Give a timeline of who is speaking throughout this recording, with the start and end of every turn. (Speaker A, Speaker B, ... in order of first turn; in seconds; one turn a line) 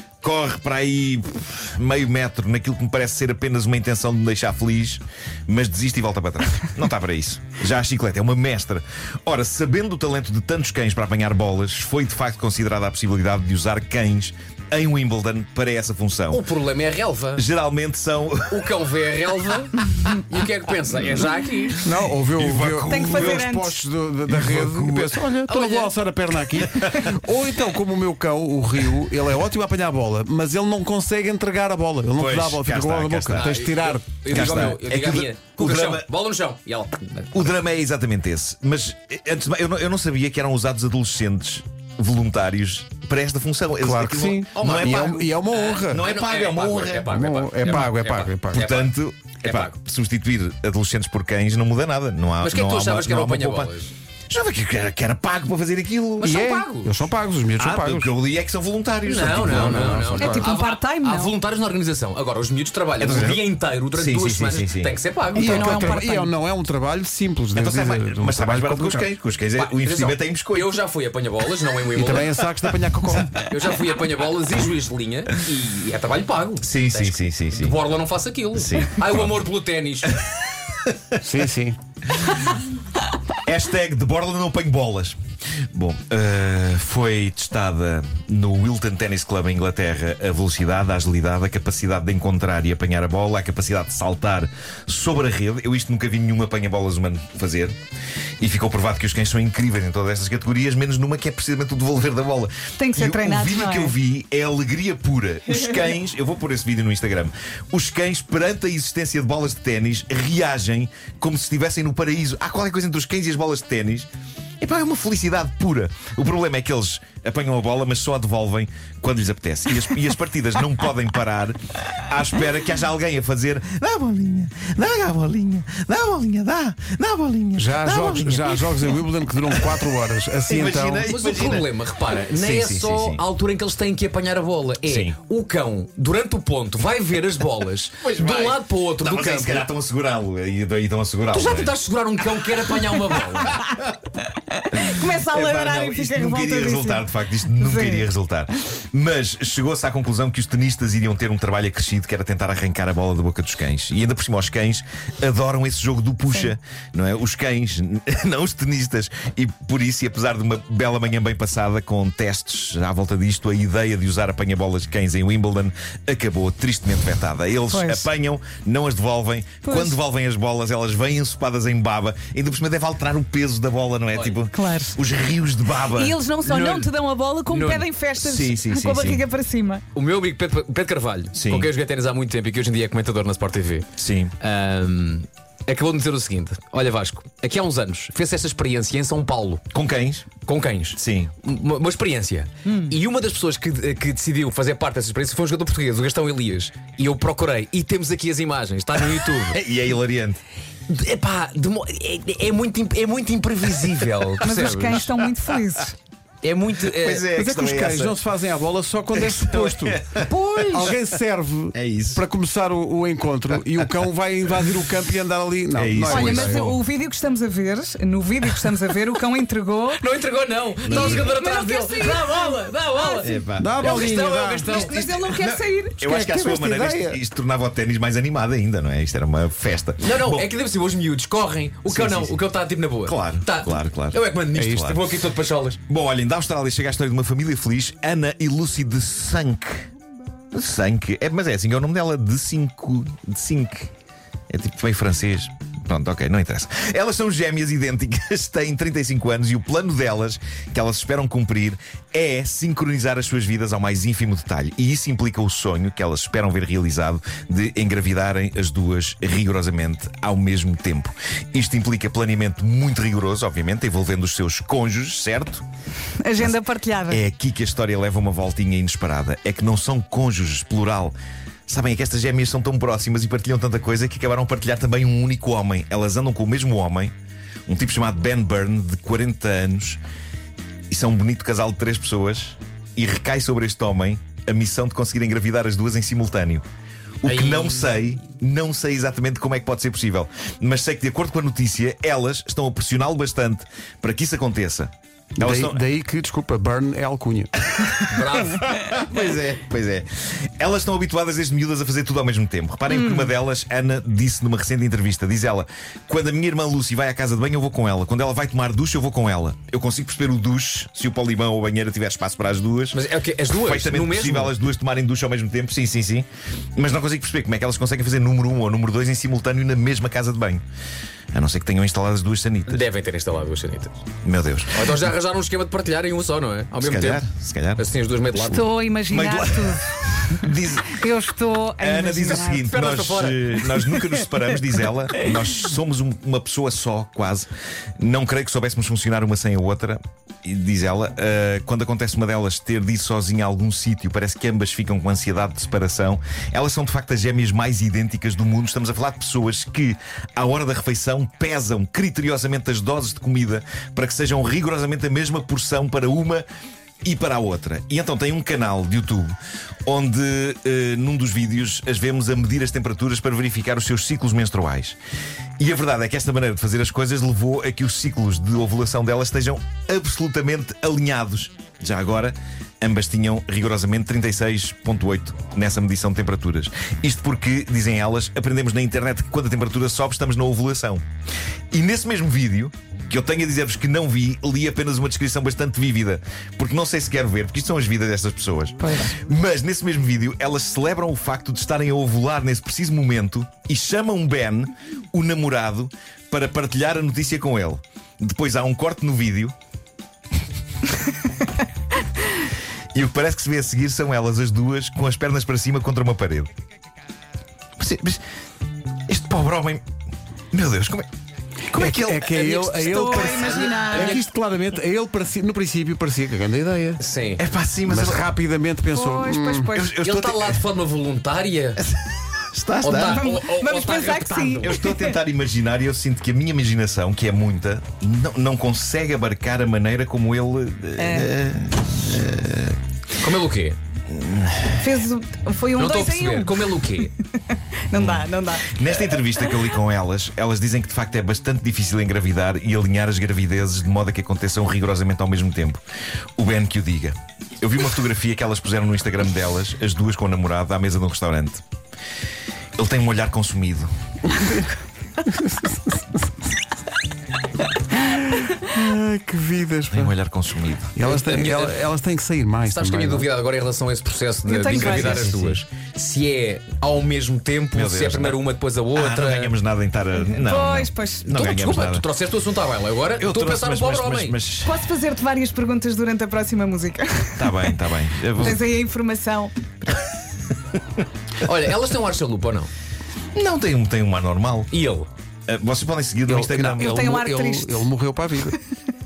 Speaker A: 0.2-16.4
Speaker B: 16.3-17.4
Speaker A: 17.3-18.8
Speaker B: 18.5-21.8
Speaker A: 19.4-20.1
Speaker C: 21.8-34.8
Speaker A: 22.3-23.6
Speaker D: 22.9-23.8
Speaker A: 24.3-25.2
Speaker B: 25.5-25.9
Speaker A: 26.5-27.2
Speaker A: 32.2-33.5
Speaker B: 33.3-37.5
Speaker A: 34.3-36.0
Speaker A: 37.3-45.3
Speaker C: 43.8-46.1
Speaker B: 44.5-48.9
Speaker A: 45.9-47.1
Speaker C: 47.1-48.6
Speaker A: 48.5-53.7
Speaker B: 49.4-49.8
Speaker B: 52.4-53.9
Speaker A: 54.3-56.3
Speaker B: 56.2-56.9
Speaker C: 56.2-58.1
Speaker A: 57.6-60.3
Speaker B: 59.0-66.1
Speaker C: 59.5-60.5
Speaker D: 60.1-61.3
Speaker A: 63.0-65.0
Speaker C: 65.3-69.1
Speaker D: 65.3-66.2
Speaker A: 67.5-70.8
Speaker B: 69.5-72.3
Speaker C: 71.9-73.4
Speaker B: 73.5-80.1
Speaker A: 76.6-77.8
Speaker A: 78.5-79.4
Speaker A: 80.0-81.2
Speaker C: 81.2-81.8
Speaker A: 83.5-85.2
Speaker A: 85.7-97.7
Speaker A: 98.4-114.1
Speaker D: 102.8-103.9
Speaker A: 114.6-129.9
Speaker C: 127.6-131.1
Speaker A: 130.5-131.7
Speaker B: 131.1-139.7
Speaker A: 132.3-133.2
Speaker A: 134.8-135.1
Speaker A: 138.0-141.7
Speaker B: 141.3-143.6
Speaker D: 144.7-148.1
Speaker A: 144.7-176.2
Speaker D: 167.7-168.1
Speaker D: 169.6-169.9
Speaker B: 174.1-174.4
Speaker D: 174.5-175.0
Speaker D: 175.9-179.8
Speaker B: 176.4-176.9
Speaker B: 177.5-177.9
Speaker A: 178.2-179.2
Speaker B: 179.9-183.9
Speaker A: 181.3-181.7
Speaker A: 184.0-184.3
Speaker B: 184.4-189.6
Speaker A: 189.7-190.3
Speaker B: 190.4-199.6
Speaker A: 190.9-191.3
Speaker D: 192.7-192.9
Speaker A: 199.5-200.4
Speaker B: 200.9-205.1
Speaker D: 204.4-205.9
Speaker A: 204.8-205.4
Speaker B: 206.4-207.3
Speaker A: 206.9-208.2
Speaker C: 207.3-210.0
Speaker A: 209.1-210.9
Speaker B: 210.2-210.9
Speaker C: 210.7-216.7
Speaker A: 211.7-212.2
Speaker A: 215.7-216.8
Speaker D: 216.1-220.0
Speaker B: 219.9-225.0
Speaker A: 220.8-221.3
Speaker D: 220.8-226.0
Speaker A: 223.2-223.8
Speaker C: 223.6-224.7
Speaker A: 224.7-230.5
Speaker C: 226.0-227.2
Speaker B: 230.0-235.8
Speaker A: 231.8-232.4
Speaker A: 233.0-235.2
Speaker A: 235.9-239.9
Speaker A: 240.5-243.9
Speaker A: 244.5-265.6
Speaker D: 266.2-267.2
Speaker A: 267.1-271.1
Speaker A: 271.7-277.1
Speaker A: 277.7-280.0
Speaker A: 280.9-286.6
Speaker A: 287.2-295.8
Speaker B: 287.2-288.0
Speaker C: 295.4-297.5
Speaker B: 298.1-298.7
Speaker A: 298.5-313.0
Speaker D: 302.9-303.3
Speaker B: 312.9-314.5
Speaker A: 313.6-320.6
Speaker A: 321.3-322.8
Speaker B: 322.7-324.0
Speaker A: 324.2-325.1
Speaker B: 324.7-327.2
Speaker A: 326.8-327.8
Speaker B: 327.8-328.7
Speaker D: 328.4-332.7
Speaker A: 329.1-331.0
Speaker A: 331.8-356.4
Speaker B: 332.5-333.6
Speaker D: 333.7-334.1
Speaker A: 357.0-365.0
Speaker A: 365.6-381.0
Speaker A: 381.7-399.5
Speaker D: 388.8-389.1
Speaker A: 402.9-406.5
Speaker A: 407.8-408.2
Speaker A: 409.1-409.8
Speaker A: 410.5-411.1
Speaker A: 411.7-412.6
Speaker C: 411.7-417.0
Speaker B: 412.3-414.2
Speaker D: 412.7-414.2
Speaker B: 417.0-417.4
Speaker A: 417.4-418.3
Speaker C: 417.9-419.7
Speaker D: 418.9-419.9
Speaker A: 419.7-420.6
Speaker B: 420.0-421.8
Speaker A: 421.8-423.4
Speaker B: 422.8-424.8
Speaker D: 423.0-425.2
Speaker A: 424.6-432.8
Speaker D: 431.0-431.3
Speaker B: 433.2-433.8
Speaker A: 434.1-434.8
Speaker D: 434.8-437.1
Speaker B: 435.8-437.1
Speaker D: 437.9-439.6
Speaker A: 437.9-445.8
Speaker A: 446.4-451.6
Speaker A: 452.8-453.9
Speaker C: 454.3-454.7
Speaker C: 455.2-456.2
Speaker C: 457.9-460.1
Speaker A: 459.9-461.0
Speaker C: 460.9-463.3
Speaker B: 461.0-461.8
Speaker B: 462.7-469.5
Speaker D: 464.4-465.3
Speaker C: 464.9-465.6
Speaker A: 467.7-468.4
Speaker A: 468.9-472.1
Speaker D: 470.2-471.4
Speaker B: 471.3-474.4
Speaker A: 473.2-474.9
Speaker D: 474.6-477.6
Speaker A: 477.4-478.6
Speaker D: 478.4-479.5
Speaker B: 481.4-482.7
Speaker A: 483.4-484.7
Speaker B: 484.7-485.1
Speaker A: 485.5-487.0
Speaker C: 486.3-488.6
Speaker D: 486.8-487.9